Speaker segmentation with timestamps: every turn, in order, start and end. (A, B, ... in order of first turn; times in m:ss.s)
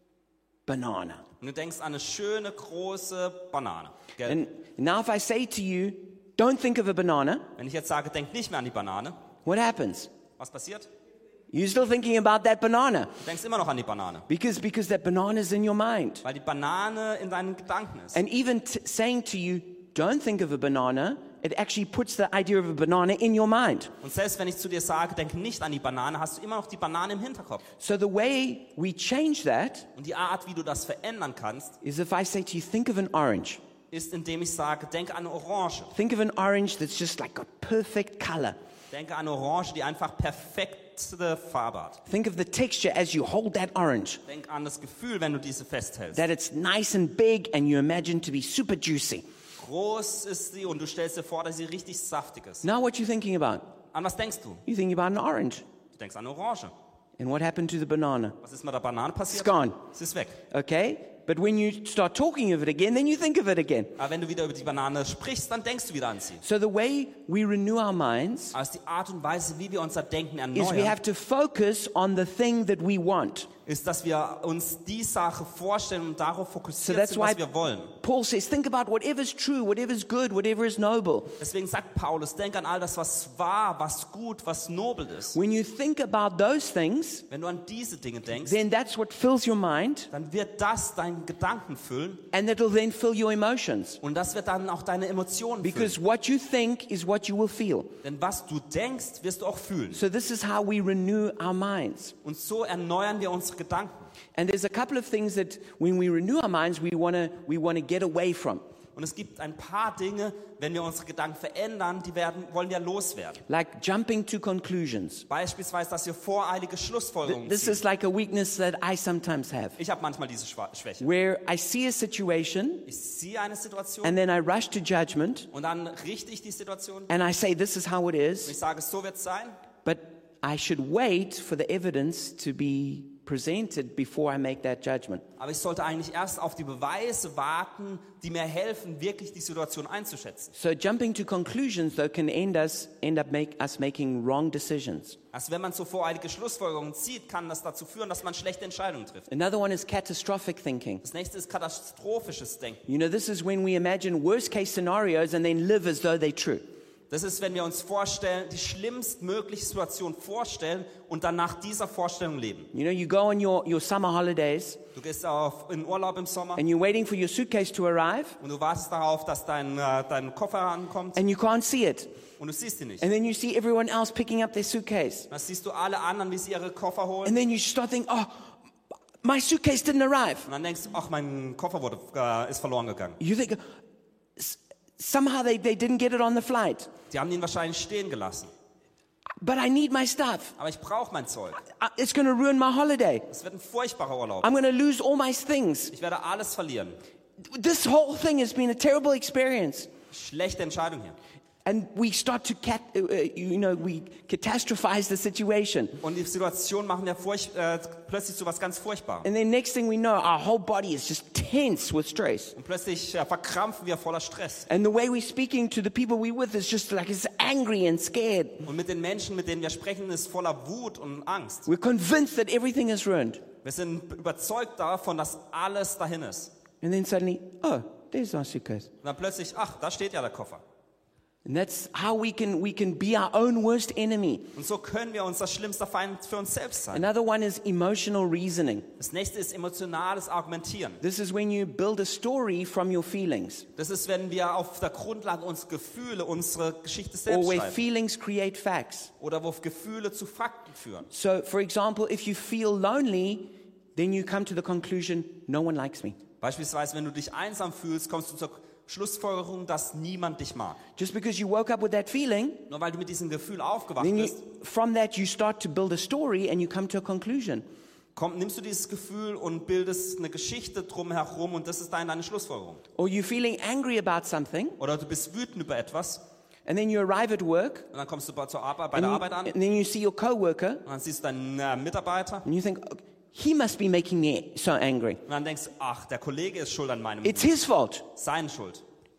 0:00.7-0:01.2 A
0:01.4-0:04.4 B
0:04.3-0:07.5 A
0:07.6-0:09.2 B
0:09.4-0:10.1 A
0:10.4-0:10.9 B
0:11.5-0:13.2 A
0:13.2-0:14.3 B
0:14.3-0:16.2 A
0:16.2-0:18.2 B
0:18.1-0:23.9 A
0:24.0-0:27.6 B
0:27.8-0:29.9 A
0:30.0-0:31.8 B
0:31.8-0:33.6 A
0:33.9-0:35.9 B
0:35.9-0:38.6 A
0:38.9-0:42.0 B
0:42.1-0:44.2 A
0:44.3-0:46.3 B
0:46.1-0:49.2 A
0:49.6-0:52.6 B
0:52.6-0:53.8 A
0:53.9-0:54.6 B
0:54.7-0:55.6 A
0:55.9-0:56.7 B
0:57.2-0:58.4 A
0:58.4-1:00.4 B
0:59.3-0:59.8 A
1:00.5-1:04.0 A
1:04.0-1:06.4 B
1:06.4-1:08.6 A
1:08.5-1:11.0 B
1:10.5-1:13.5 A
1:13.7-1:18.0 B
1:16.8-1:17.4 A
1:18.0-1:21.4 A
1:21.4-1:25.4 B
1:25.3-1:27.3 A
1:27.3-1:28.6 B
1:28.4-1:30.1 A
1:30.1-1:32.3 B
1:32.3-1:34.0 A
1:34.0-1:36.0 B
1:35.6-1:38.0 A
1:38.0-1:40.0 B
1:39.9-1:42.2 A
1:42.2-1:44.1 B
1:44.4-1:48.6 A
1:49.0-1:53.4 B
1:53.5-1:55.3 A
1:55.3-1:57.8 B
1:57.3-1:59.8 A
1:59.8-2:01.1 B
2:01.0-2:02.9 A
2:02.9-2:04.2 B
2:04.0-2:05.5 A
2:05.5-2:07.1 B
2:07.1-2:08.6 A
2:08.5-2:09.6 B
2:09.8-2:15.2 A
2:15.4-2:20.5 B
2:20.5-2:25.2 A
2:25.3-2:29.3 B
2:29.3-2:31.0 A
2:31.0-2:32.8 B
2:32.9-2:36.7 A
2:37.1-2:42.7 B
2:42.7-2:44.8 A
2:45.0-2:46.6 B
2:46.6-2:48.4 A
2:48.4-2:51.2 B
2:51.2-2:52.1 A
2:52.4-2:53.1 B
2:53.0-2:55.3 A
2:55.3-2:57.4 B
2:57.2-2:58.6 A
2:59.2-3:00.5 A
3:00.5-3:03.2 B
3:03.2-3:03.6 A
3:04.4-3:06.9 A
3:07.1-3:08.5 B
3:09.4-3:10.6 A
3:10.6-3:11.6 B
3:11.6-3:13.3 A
3:13.3-3:14.5 B
3:14.4-3:15.9 A
3:15.9-3:17.0 B
3:17.4-3:19.9 A
3:20.1-3:21.2 B
3:21.6-3:26.0 A
3:26.0-3:29.3 B
3:29.2-3:32.6 A
3:32.6-3:34.7 B
3:34.7-3:38.7 A
3:38.6-3:41.7 B
3:41.7-3:43.4 A
3:43.6-3:46.5 B
3:46.8-3:48.9 A
3:49.0-3:50.6 B
3:51.4-3:54.6 A
3:54.6-3:57.1 B
3:56.9-3:58.9 A
3:59.0-4:01.0 B
4:01.0-4:03.7 A
4:03.8-4:07.8 B
4:07.3-4:09.1 A
4:09.2-4:11.1 B
4:11.1-4:16.2 A
4:16.4-4:20.8 B
4:21.0-4:22.7 A
4:22.7-4:24.4 B
4:24.0-4:27.6 A
4:28.2-4:32.8 B
4:33.0-4:34.8 A
4:34.8-4:36.2 B
4:36.7-4:37.9 A
4:37.9-4:39.5 B
4:38.9-4:40.8 A
4:40.8-4:42.4 B
4:42.4-4:45.2 A
4:45.3-4:47.6 B
4:47.2-4:48.1 A
4:48.1-4:48.8 B